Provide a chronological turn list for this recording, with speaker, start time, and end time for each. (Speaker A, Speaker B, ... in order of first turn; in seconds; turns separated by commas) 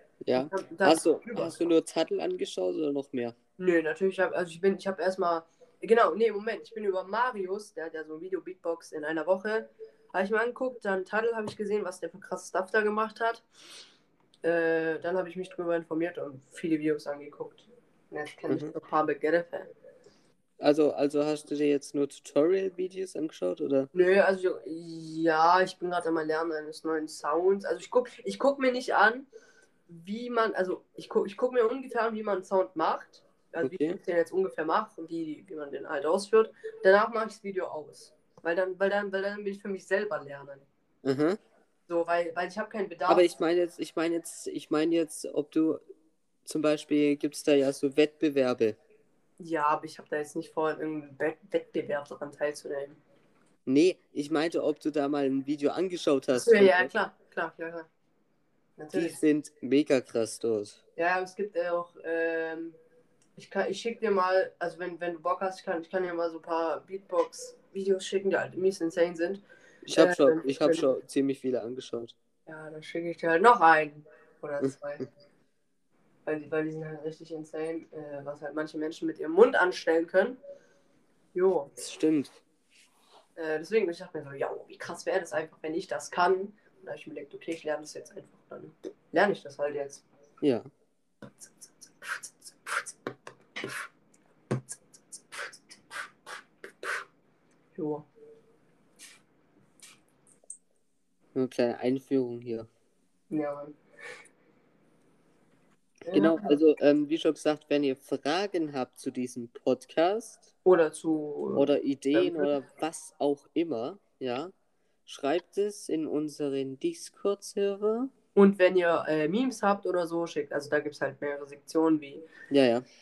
Speaker A: 0.2-3.3, Speaker B: 0.3-1.6, Speaker B: 3.6-13.4, Speaker B: 14.4-19.7, Speaker A: 18.5-18.7, Speaker A: 20.6-23.9, Speaker B: 23.9-29.3, Speaker B: 29.9-40.6, Speaker A: 33.6-34.0, Speaker A: 41.0-41.4, Speaker B: 41.9-43.3, Speaker A: 43.1-45.8, Speaker A: 46.4-48.8, Speaker B: 49.4-53.0, Speaker A: 53.6-56.9, Speaker B: 56.3-57.9, Speaker B: 58.8-59.2, Speaker A: 58.9-60.8, Speaker B: 61.0-62.8, Speaker B: 63.4-70.9, Speaker A: 69.8-72.1, Speaker B: 72.5-75.0, Speaker B: 76.2-80.4, Speaker B: 81.3-81.7, Speaker A: 81.8-82.3, Speaker B: 83.3-90.0, Speaker A: 90.4-90.7, Speaker B: 92.0-92.8, Speaker B: 97.8-98.1, Speaker A: 101.3-102.7, Speaker B: 103.3-103.8, Speaker B: 106.0-106.6, Speaker A: 106.1-110.5, Speaker B: 110.6-112.5, Speaker A: 111.5-114.5, Speaker A: 115.0-118.1, Speaker B: 118.3-122.2, Speaker A: 122.5-122.8